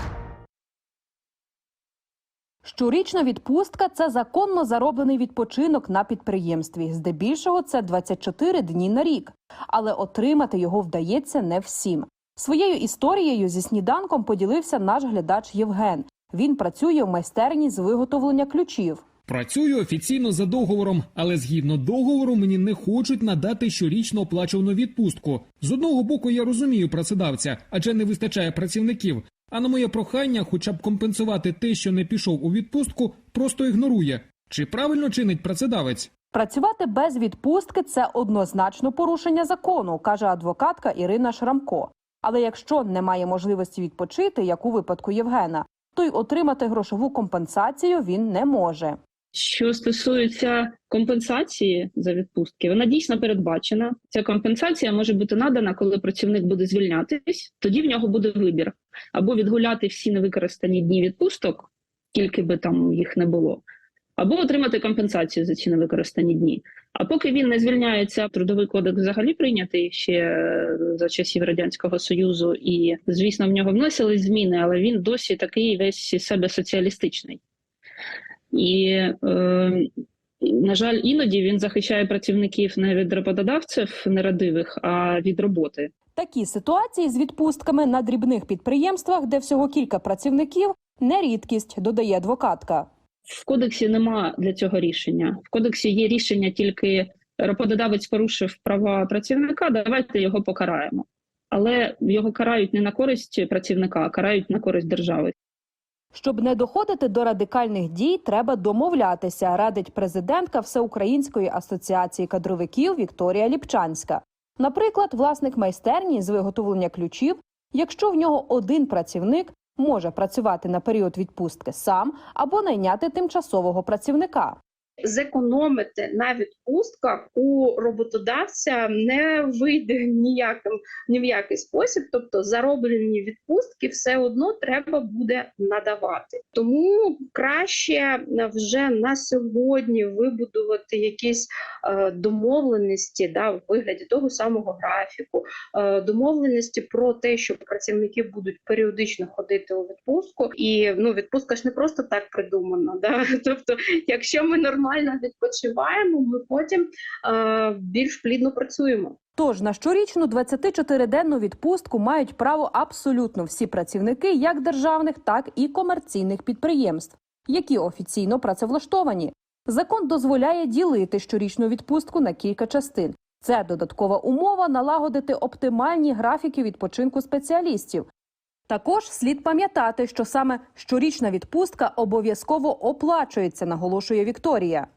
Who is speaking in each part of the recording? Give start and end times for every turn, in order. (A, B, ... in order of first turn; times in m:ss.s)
0:02.6-0:19.0 A
0:19.3-0:36.1 B
0:36.3-0:49.0 A
0:49.4-1:03.6 C
1:04.2-1:17.4 C
1:18.5-1:19.9 C
1:20.4-1:25.9 C
1:26.2-1:32.9 A
1:33.3-1:45.3 C
1:46.1-2:04.6 A
2:05.0-2:39.2 D
2:39.4-2:58.1 A
2:58.7-3:04.9 A